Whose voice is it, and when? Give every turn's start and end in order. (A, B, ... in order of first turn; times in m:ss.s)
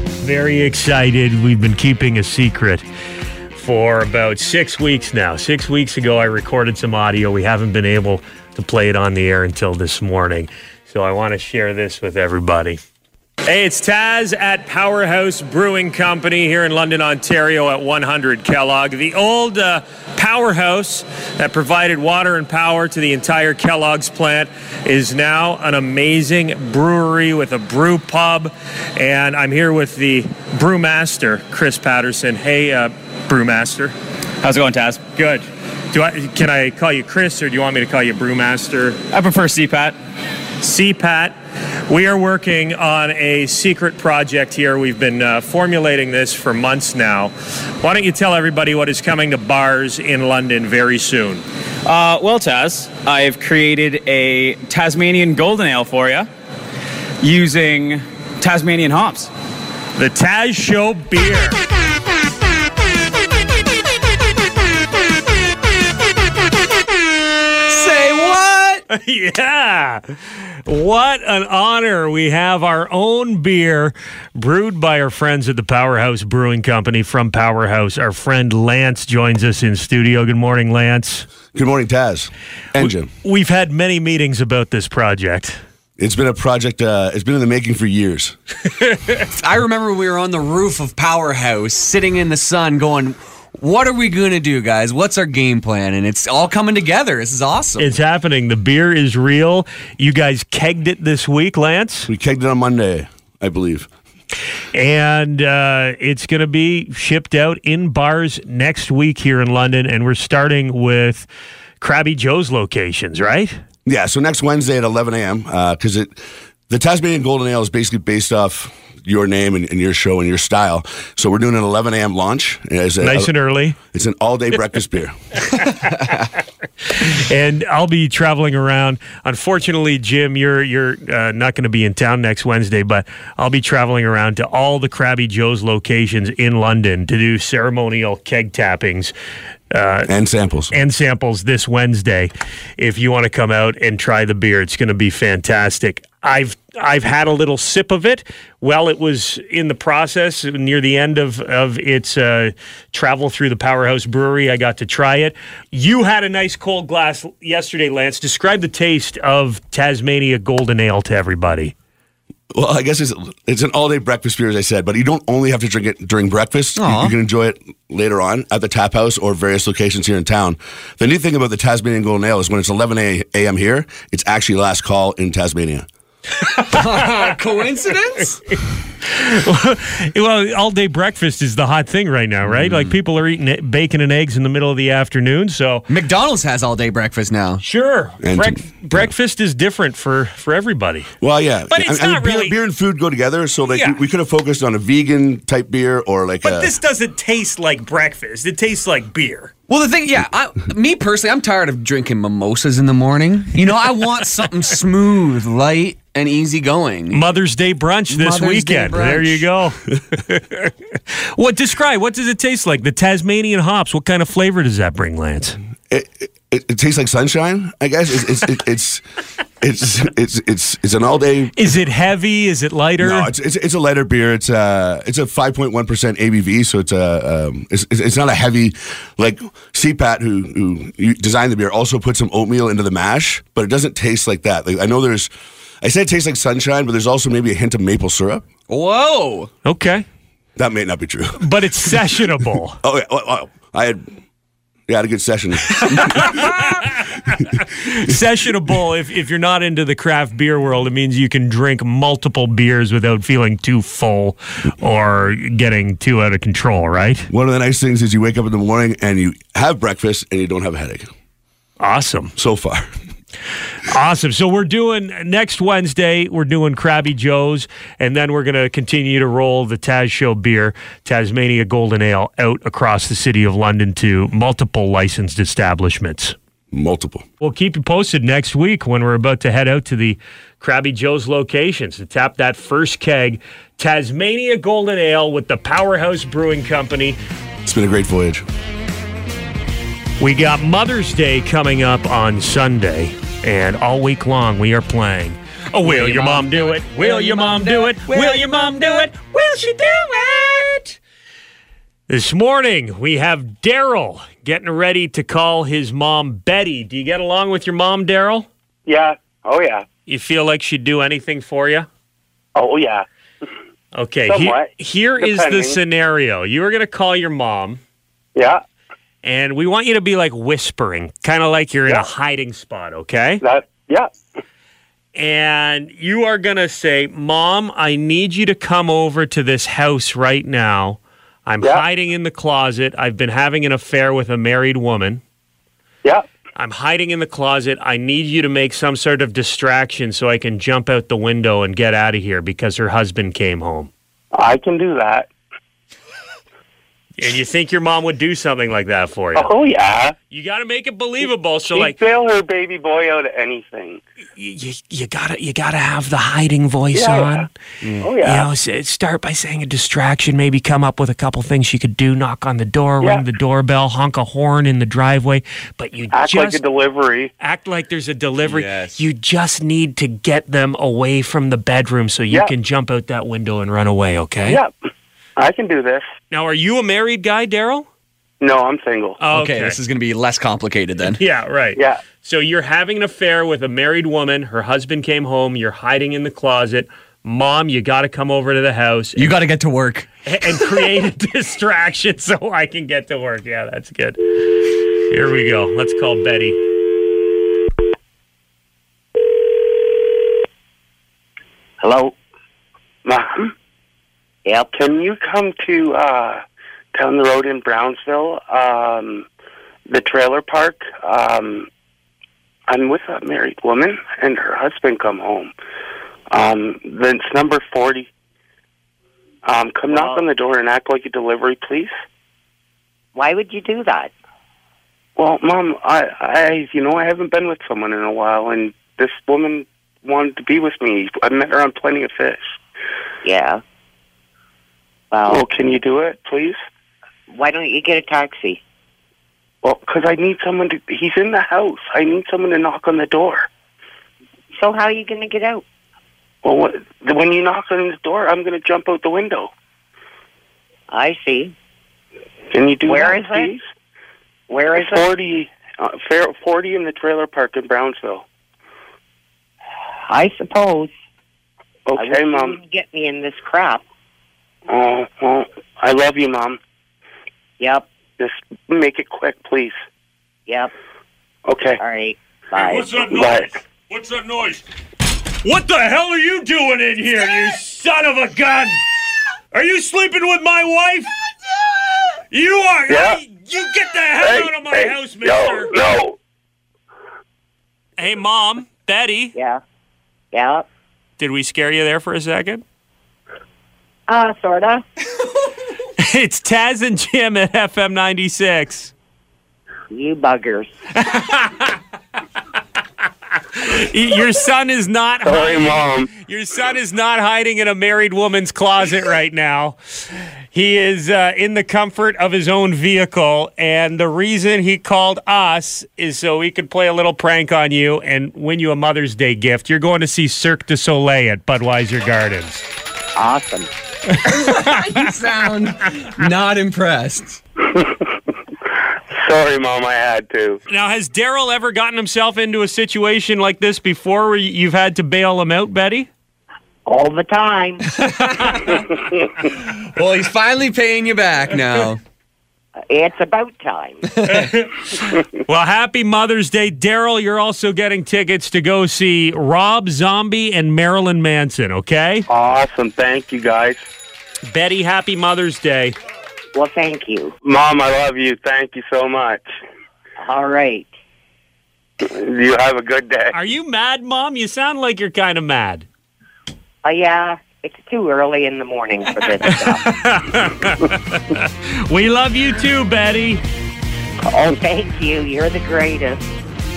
0:00.2-0:02.8 A
0:03.5-0:12.8 A
0:13.4-0:33.9 A
0:34.4-0:35.1 B
0:35.2-0:39.0 A
0:39.1-0:40.0 B
0:40.6-0:41.4 A
0:41.9-0:51.4 A
0:51.8-0:56.3 B
0:57.2-0:59.3 B
1:00.0-1:01.6 A
1:07.7-1:08.8 C
1:08.9-1:10.0 A
1:10.6-1:21.3 A
1:21.5-1:23.1 D
1:22.8-1:25.6 A
1:26.0-1:28.4 D
1:28.8-1:29.2 A
1:29.4-1:37.9 C
1:37.8-1:42.1 A
1:42.1-1:43.9 D
1:44.7-1:51.3 A
1:51.8-1:53.6 A
1:53.8-2:05.2 D
2:03.0-2:03.8 A
2:05.5-2:06.1 A
2:06.9-2:19.1 A
2:19.7-2:20.1 A
2:20.1-2:20.7 D
2:20.7-2:41.7 A
2:42.5-2:55.9 D
2:46.8-2:47.1 C
2:56.5-2:56.8 A
2:56.6-2:58.4 C
2:59.0-3:05.8 A
3:02.4-3:02.9 C
3:05.9-3:07.6 C
3:07.6-3:11.1 A
3:08.2-3:09.1 D
3:11.2-3:16.7 D
3:11.7-3:12.5 A
3:13.7-3:14.0 A
3:16.4-3:19.5 A
3:19.7-3:27.2 C
3:27.1-3:30.7 A
3:28.1-3:29.4 C
3:31.3-3:35.6 A
3:35.9-3:39.0 D
3:39.6-3:41.5 D
3:41.6-3:43.3 A
3:43.0-3:55.3 D
3:55.8-3:58.4 D
3:58.7-3:59.5 C
3:59.6-4:00.0 A
4:00.6-4:01.5 D
4:01.4-4:02.8 A
4:02.8-4:04.1 D
4:04.9-4:06.4 D
4:05.8-4:17.3 A
4:07.4-4:08.2 D
4:17.3-4:21.1 D
4:21.8-4:22.3 A
4:22.4-4:22.9 D
4:23.9-4:36.4 A
4:36.7-4:37.2 D
4:37.4-4:47.2 A
4:47.6-4:48.4 D
4:50.2-4:59.3 A
4:55.8-5:00.9 C
5:02.1-5:08.5 A
5:08.8-5:09.8 E
5:10.1-5:11.9 A
5:12.5-5:13.0 E
5:13.9-5:17.8 A
5:14.3-5:15.8 E
5:18.4-5:18.6 E
5:19.2-5:23.4 A
5:23.4-5:24.1 E
5:25.1-5:35.2 A
5:36.6-5:43.9 A
5:44.3-5:45.3 E
5:47.2-5:49.5 A
5:49.3-5:50.1 E
5:50.3-5:52.0 A
5:51.7-5:54.0 E
5:54.4-5:57.4 A
5:56.9-5:57.5 E
5:58.0-5:58.5 E
5:58.2-6:06.6 A
6:06.1-6:07.3 E
6:07.4-6:14.6 A
6:08.4-6:09.0 C
6:14.4-6:14.7 E
6:15.4-6:16.0 E
6:16.3-6:17.9 A
6:18.4-6:19.2 E
6:19.2-6:19.8 A
6:19.3-6:21.2 C
6:21.1-6:29.3 A
6:29.2-6:30.1 C
6:30.2-6:34.4 A
6:35.1-6:36.6 A
6:41.8-6:42.1 F
6:43.0-6:43.5 E
6:44.4-6:44.7 F
6:44.7-6:46.4 E
6:46.9-6:49.2 E
6:49.9-6:51.7 E
6:52.7-6:55.5 E
6:56.3-6:58.1 E
6:59.4-7:01.9 E
6:59.9-7:00.2 F
7:03.1-7:04.1 F
7:05.2-7:12.6 E
7:13.2-7:13.6 F
7:15.1-7:15.4 F
7:15.3-7:16.6 E
7:17.3-7:18.6 F
7:19.6-7:23.5 E
7:24.5-7:25.6 F
7:26.4-7:29.5 E
7:30.9-7:31.5 F
7:32.5-7:33.6 E
7:32.8-7:33.6 F
7:34.5-7:35.1 F
7:34.8-7:38.2 E
7:40.1-7:40.9 F
7:41.9-7:42.6 E
7:42.0-7:43.8 F
7:44.7-7:46.6 E
7:47.6-7:47.8 F
7:48.2-7:49.8 E
7:51.5-7:51.8 E
7:51.8-7:53.0 F
7:52.6-7:54.6 A
7:53.0-7:53.5 E
7:55.4-7:58.8 A
7:59.5-8:01.1 A
8:02.3-8:05.7 A
8:02.9-8:03.2 E
8:04.2-8:06.2 E
8:08.0-8:09.3 A
8:09.3-8:09.6 F
8:10.3-8:10.6 F
8:11.2-8:12.6 A
8:14.1-8:14.8 F
8:16.0-8:18.9 A
8:19.9-8:20.7 F
8:20.9-8:21.8 A
8:23.5-8:29.8 A
8:25.2-8:26.1 E
8:30.5-8:42.6 A
8:43.2-8:43.7 F
8:44.1-8:45.1 A
8:44.2-8:47.4 C
8:47.6-8:48.2 E
8:49.1-8:50.6 E
8:50.7-8:56.1 A
8:56.8-8:57.8 F
8:57.9-8:58.8 C
8:58.4-8:58.7 A
8:59.5-9:02.0 C
9:02.9-9:04.0 F
9:04.1-9:04.5 C
9:04.2-9:12.2 A
9:12.3-9:13.8 E
9:14.5-9:16.0 A
9:16.5-9:17.3 F
9:17.4-9:19.4 E
9:20.2-9:20.9 F
9:22.0-9:23.3 E
9:23.3-9:25.8 A
9:26.8-9:29.9 F
9:29.4-9:33.4 A
9:34.2-9:36.2 F